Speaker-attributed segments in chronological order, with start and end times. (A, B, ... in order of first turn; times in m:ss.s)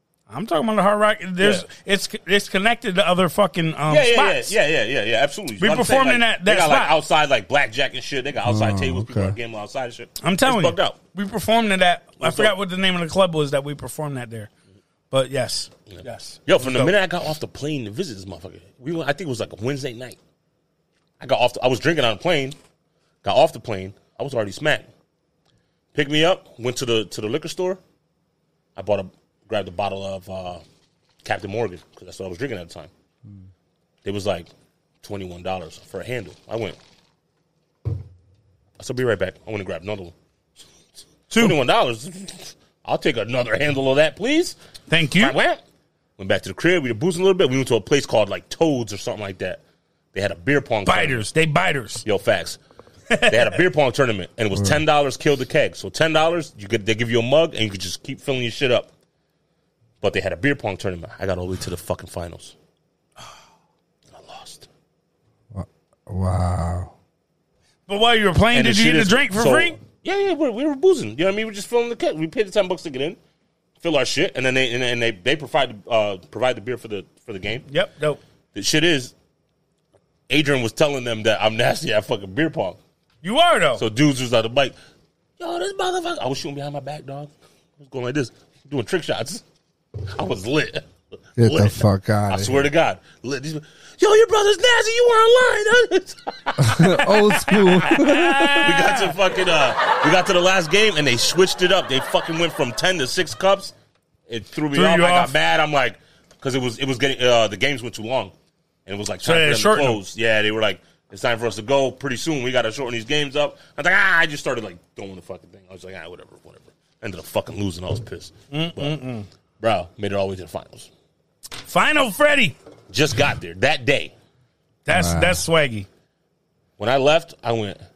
0:00.3-0:04.5 A
0:01.4-0:01.6 B
0:03.9-0:11.0 B
0:05.6-0:06.9 A
0:08.4-0:09.4 C
0:10.2-0:14.5 A
0:12.2-0:12.5 B
0:15.1-0:16.9 A
0:15.9-0:20.2 B
0:21.2-0:22.6 B
0:23.2-0:24.9 B
0:25.9-0:27.8 B
0:28.8-0:30.6 B
0:31.2-0:32.9 B
0:34.0-0:34.5 B
0:35.0-0:36.8 B
0:38.8-0:40.1 B
0:41.3-0:44.6 B
0:44.9-0:45.4 A
0:45.2-0:45.6 B
0:46.2-0:49.6 B
0:50.1-0:51.2 B
0:50.8-0:52.0 A
0:52.0-0:52.6 B
0:53.1-0:53.5 A
0:53.3-0:58.9 B
1:00.0-1:02.5 B
1:04.1-1:04.7 B
1:05.5-1:06.9 C
1:07.9-1:09.8 A
1:08.5-1:13.2 B
1:13.8-1:17.6 B
1:17.7-1:18.2 A
1:18.5-1:19.1 B
1:20.3-1:22.8 B
1:23.2-1:23.8 A
1:23.8-1:24.8 B
1:25.4-1:29.4 B
1:30.1-1:37.9 B
1:31.4-1:32.7 C
1:36.6-1:38.8 C
1:37.4-1:39.1 A
1:38.6-1:43.7 B
1:44.3-1:48.3 B
1:44.7-1:45.3 A
1:48.8-1:58.9 B
1:49.2-1:50.0 A
1:58.5-1:59.3 A
1:59.6-2:00.9 B
2:01.6-2:02.5 A
2:02.9-2:04.1 B
2:04.8-2:05.9 A
2:04.9-2:05.4 C
2:06.8-2:07.8 B